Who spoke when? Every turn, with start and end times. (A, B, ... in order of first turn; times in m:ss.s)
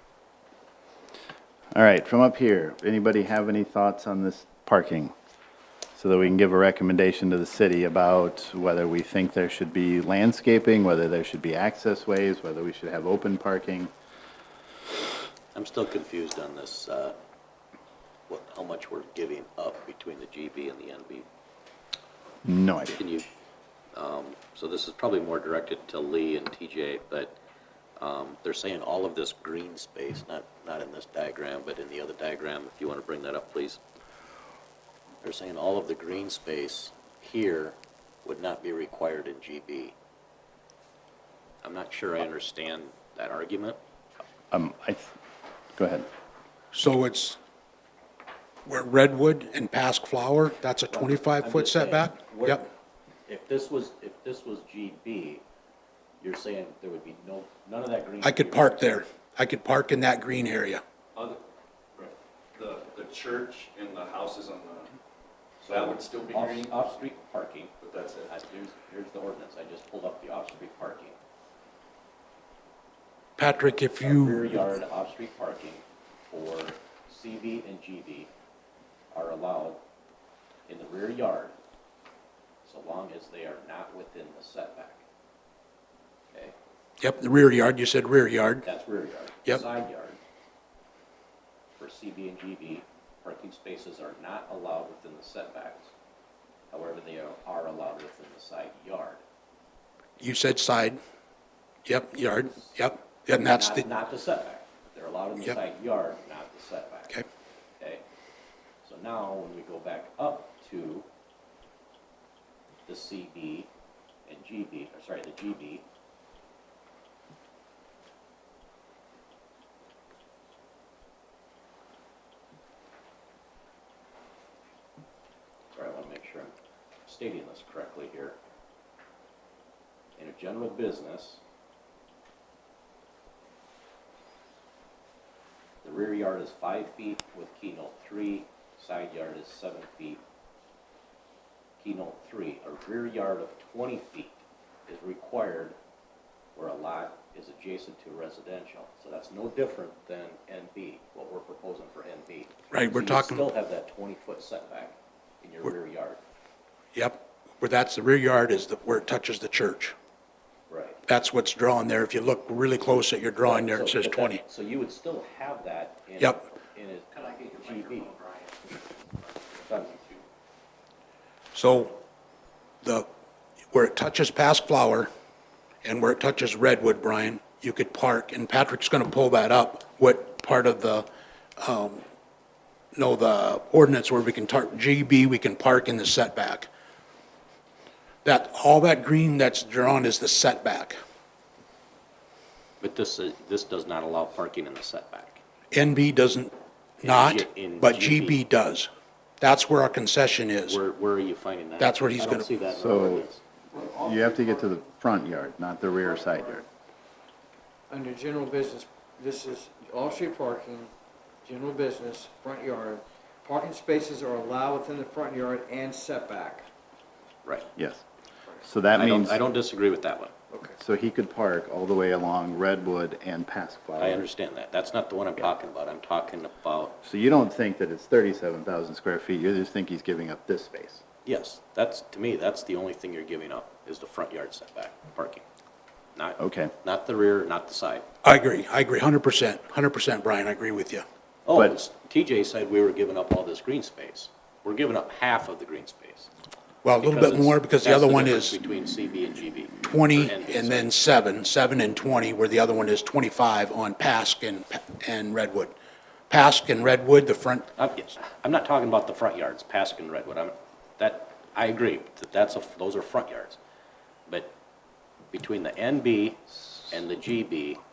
0:01.7-0:05.1 A
0:06.0-0:13.9 A
0:15.5-0:17.2 B
0:18.3-0:21.2 B
0:22.4-0:23.0 A
0:23.0-0:23.2 B
0:23.9-0:27.4 B
0:28.0-0:33.8 B
0:35.2-0:39.9 B
0:41.6-0:43.8 B
0:44.5-0:45.1 A
0:45.8-0:46.0 A
0:46.7-0:47.4 C
0:48.6-0:52.6 C
0:50.9-0:52.7 B
0:53.3-0:55.4 B
0:56.2-0:59.0 B
0:58.2-1:00.8 C
1:02.0-1:04.9 D
1:05.6-1:07.7 B
1:05.6-1:07.0 D
1:07.8-1:08.3 D
1:08.3-1:11.2 B
1:13.4-1:14.5 C
1:14.0-1:18.3 B
1:19.1-1:19.8 B
1:20.7-1:21.5 B
1:22.6-1:25.0 B
1:27.0-1:28.6 C
1:28.6-1:30.2 B
1:31.8-1:35.9 B
1:36.7-1:39.2 B
1:40.2-1:41.0 C
1:41.8-1:43.8 C
1:43.4-1:47.2 B
1:48.8-1:51.0 B
1:52.9-1:53.7 B
1:54.3-1:55.8 B
2:05.7-2:06.5 B
2:07.0-2:08.4 B
2:10.2-2:11.4 B
2:15.8-2:20.2 B
2:21.8-2:24.3 B
2:24.9-2:25.8 B
2:26.5-2:36.2 B
2:32.7-2:33.4 C
2:36.9-2:39.9 C
2:40.7-2:41.0 B
2:41.1-2:44.4 C
2:43.4-2:48.2 B
2:49.6-2:50.2 B
2:51.5-2:52.0 C
2:53.7-2:55.1 C
2:55.8-3:01.0 C
3:01.6-3:02.0 C
3:03.0-3:06.7 C
3:08.2-3:11.0 C
3:12.8-3:15.4 B
3:15.7-3:16.5 C
3:17.0-3:18.4 B
3:17.0-3:18.9 C
3:19.4-3:20.8 C
3:20.7-3:23.4 B
3:21.8-3:22.5 C
3:22.7-3:23.3 A
3:23.7-3:24.8 E
3:24.0-3:26.6 A
3:26.0-3:26.5 E
3:27.9-3:30.9 E
3:31.4-3:36.7 E
3:37.8-3:38.0 A
3:38.6-3:39.4 A
3:38.9-3:40.3 B
3:40.8-3:44.2 A
3:44.0-3:47.0 B
3:47.0-3:51.0 A
3:51.2-3:55.4 B
3:56.2-3:58.0 B
3:56.4-3:56.7 A
3:58.2-4:01.0 C
4:01.4-4:06.3 B
4:06.8-4:08.6 C
4:07.0-4:11.0 B
4:09.9-4:15.7 C
4:16.3-4:17.7 C
4:17.8-4:23.6 B
4:24.3-4:24.5 B
4:25.3-4:27.8 B